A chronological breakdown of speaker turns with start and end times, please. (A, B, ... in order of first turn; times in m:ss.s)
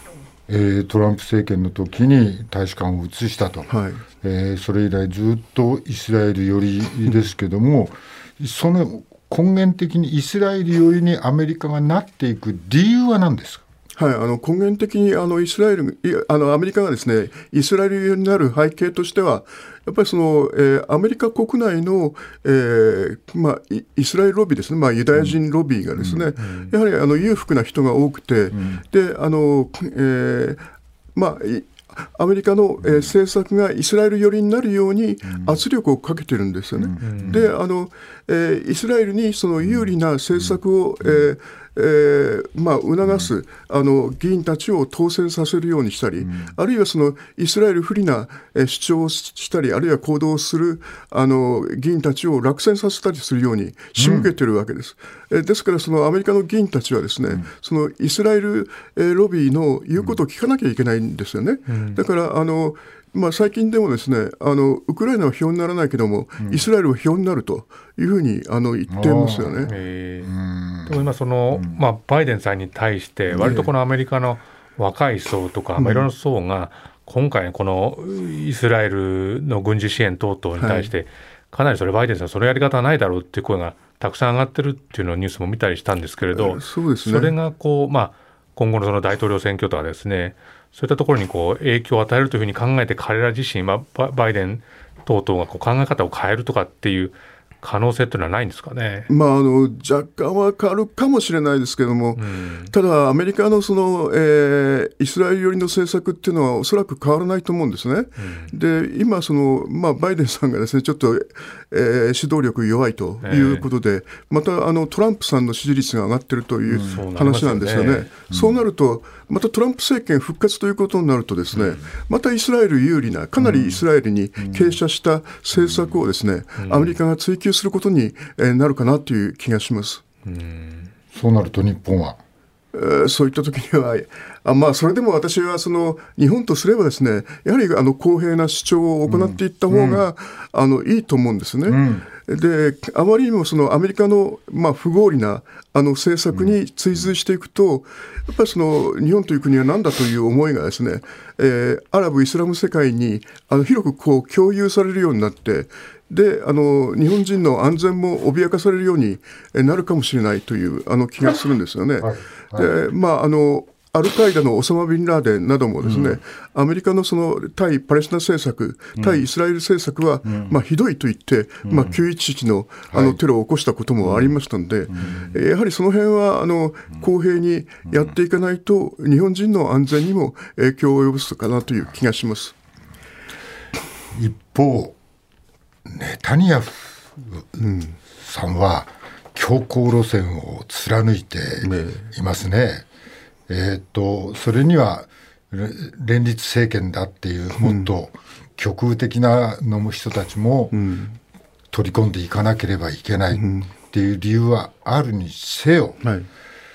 0:00.5-0:03.7 A
0:03.7-0:04.0 B
0:04.2-0:13.6 A
0:14.0-0:30.6 B
0:26.4-0:26.7 C
0:28.5-0:28.8 A
0:31.2-1:09.7 B
0:36.8-0:37.5 A
0:37.0-0:37.5 C
0:46.2-0:46.5 A
0:54.0-0:54.3 A
1:01.7-1:02.0 C
1:08.9-1:11.8 A
1:09.7-1:10.3 C
1:10.8-1:39.1 C
1:13.4-1:13.6 A
1:13.4-1:13.7 B
1:15.8-1:16.1 B
1:20.6-1:20.9 B
1:26.3-1:27.4 B
1:39.1-2:10.0 B
1:42.2-1:42.7 C
1:48.2-1:48.5 C
1:53.2-1:53.7 C
1:56.8-1:58.1 C
1:58.3-1:58.6 A
2:01.5-2:01.8 C
2:03.4-2:03.7 A
2:04.4-2:04.8 A
2:06.6-2:07.0 C
2:10.2-2:10.9 C
2:11.1-2:12.2 A
2:12.7-3:02.6 B
2:19.1-2:20.0 A
2:21.7-2:22.1 A
2:42.0-2:42.7 A
2:45.8-2:46.2 A
2:49.0-2:49.2 A
2:50.3-2:50.6 A
2:51.7-2:51.9 A
2:52.9-2:53.2 A
2:54.9-2:55.4 A
3:04.1-3:05.0 A
3:05.9-3:07.6 A
3:07.6-3:08.0 B
3:08.2-3:12.8 A
3:11.6-3:12.1 B
3:13.5-3:20.8 A
3:17.6-3:17.9 B
3:20.7-3:21.2 B
3:21.7-3:26.0 A
3:23.3-3:23.7 B
3:26.0-3:26.3 B